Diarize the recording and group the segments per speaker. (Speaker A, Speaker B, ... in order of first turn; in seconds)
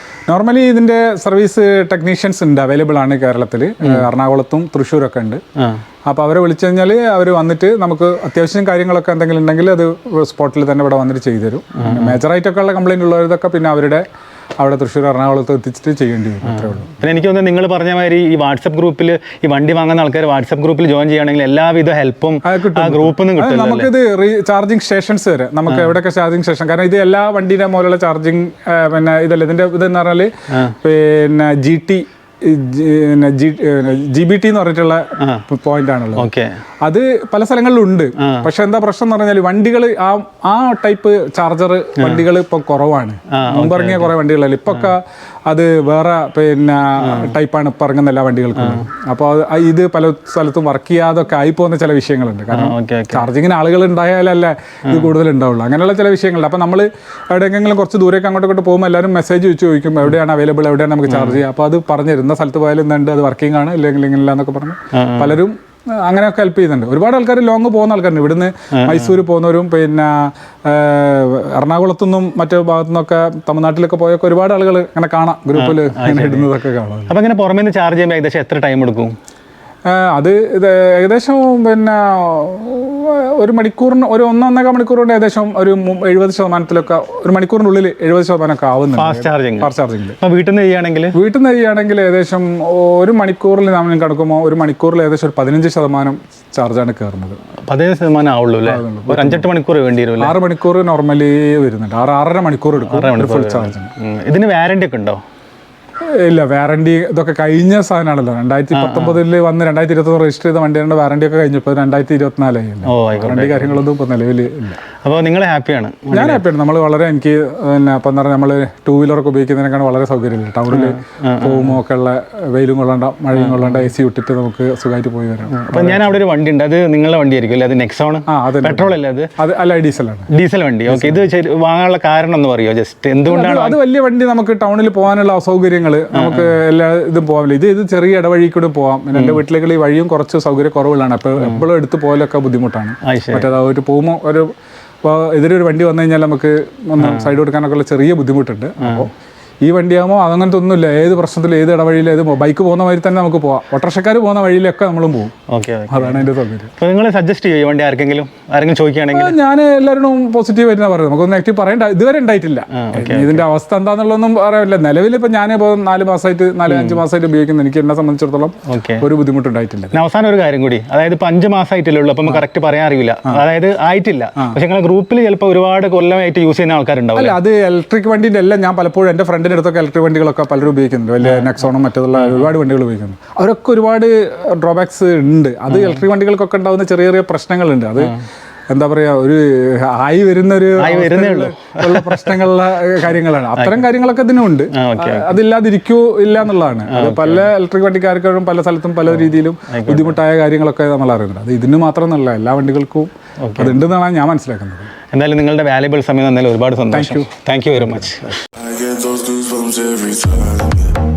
Speaker A: 0.3-5.4, 6.1-14.1, 14.6-17.0, 22.4-36.3, 36.8-77.1, 79.9-90.2, 91.2-97.4, 98.7-99.5, 100.2-103.9, 106.2-114.8, 116.1-126.2, 128.3-130.3, 130.9-131.3, 133.3-144.5, 145.0-149.1, 149.6-155.3, 155.9-156.7, 159.1-170.0, 177.2-188.2, 188.7-204.9, 206.9-208.1
Speaker B: 5.6-5.8, 11.8-12.2, 16.5-23.9, 25.7-25.9, 36.2-36.5, 38.2-38.5, 42.0-42.3, 43.3-44.1, 47.0-47.3, 48.6-48.8, 52.5-53.3, 61.1-61.4, 64.9-65.4, 68.8-69.2, 75.5-76.5, 77.1-79.1, 89.0-91.2, 97.7-100.3, 102.8-105.2, 108.7-109.2, 112.9-113.8, 115.0-116.4, 120.7-121.8, 123.4-123.9, 125.5-129.3, 130.3-133.8, 136.1-136.5, 139.2-139.4, 141.4-141.7, 143.1-143.5, 147.0-147.3, 148.8-149.1, 155.5-159.3, 162.8-163.4, 166.7-167.0, 168.7-169.1, 169.9-177.4, 181.2-181.6, 182.2-182.5, 185.7-186.0, 190.8-192.4, 193.6-193.9, 194.7-195.4, 196.9-197.5, 199.1-200.2, 203.4-203.8, 205.1-208.4
Speaker C: 208.7-210.9